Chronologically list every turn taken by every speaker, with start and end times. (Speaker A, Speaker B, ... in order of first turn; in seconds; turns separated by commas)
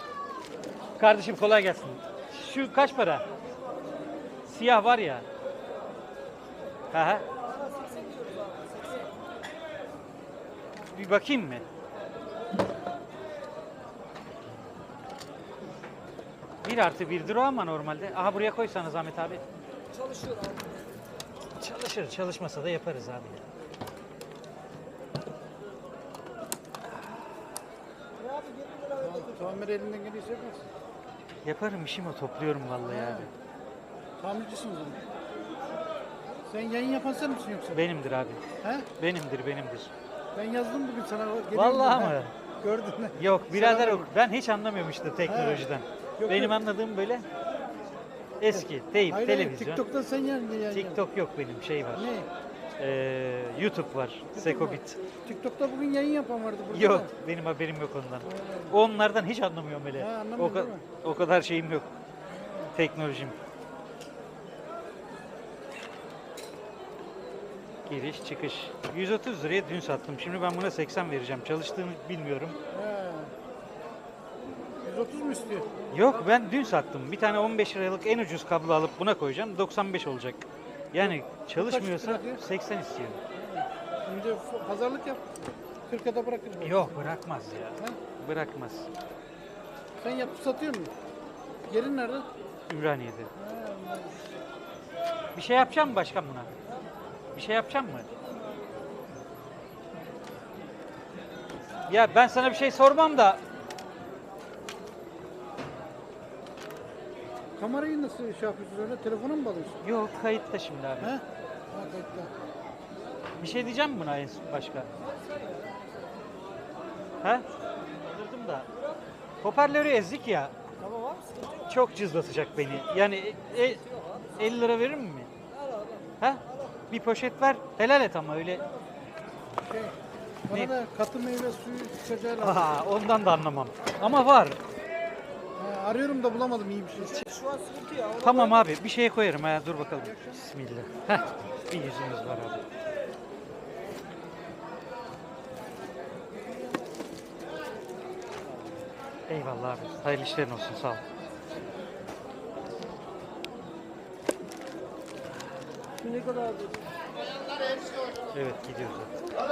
Speaker A: 1.0-3.2, Speaker A: 4.5-5.2, Speaker A: 6.9-7.2, Speaker B: 7.8-8.7, Speaker A: 10.9-11.6, Speaker A: 16.6-19.4, Speaker B: 20.0-20.7, Speaker A: 21.6-23.4, Speaker B: 28.2-29.1, Speaker C: 29.0-30.6, Speaker A: 31.4-33.3, Speaker C: 32.9-33.3, Speaker C: 34.2-35.0, Speaker C: 36.5-37.8, Speaker A: 37.7-38.4, Speaker C: 38.6-38.9, Speaker A: 39.0-39.9, Speaker C: 40.3-44.1, Speaker A: 41.5-42.3, Speaker A: 43.2-47.2, Speaker C: 45.3-45.7, Speaker C: 46.2-46.5, Speaker A: 48.4-49.8, Speaker C: 48.5-51.0, Speaker A: 50.7-52.1, Speaker C: 52.0-52.3, Speaker A: 52.8-55.0, Speaker C: 54.4-57.1, Speaker A: 56.7-61.9, Speaker C: 60.0-60.8, Speaker A: 62.7-63.4, Speaker A: 67.8-72.6, Speaker C: 72.7-73.3, Speaker C: 74.8-75.7, Speaker A: 75.9-83.2, Speaker C: 81.0-82.4, Speaker C: 83.3-85.2, Speaker C: 85.9-87.0, Speaker A: 86.6-88.9, Speaker C: 90.0-90.9, Speaker C: 91.7-92.3, Speaker A: 92.7-93.3, Speaker C: 93.4-94.2, Speaker A: 95.3-96.5, Speaker A: 97.3-98.1, Speaker A: 101.8-103.4, Speaker C: 107.6-109.8, Speaker A: 109.8-111.2, Speaker C: 111.0-112.3, Speaker A: 113.4-114.9, Speaker B: 115.3-115.6, Speaker A: 117.2-117.5, Speaker A: 118.0-118.7, Speaker A: 119.4-120.5, Speaker B: 120.9-121.4, Speaker A: 121.7-123.8, Speaker A: 124.3-125.3, Speaker A: 126.2-128.6, Speaker C: 129.6-130.0, Speaker A: 130.5-130.7, Speaker C: 130.5-132.7, Speaker A: 132.4-134.6, Speaker C: 135.6-137.3, Speaker B: 137.2-138.3, Speaker A: 138.2-142.6, Speaker A: 149.3-151.0, Speaker A: 158.3-159.1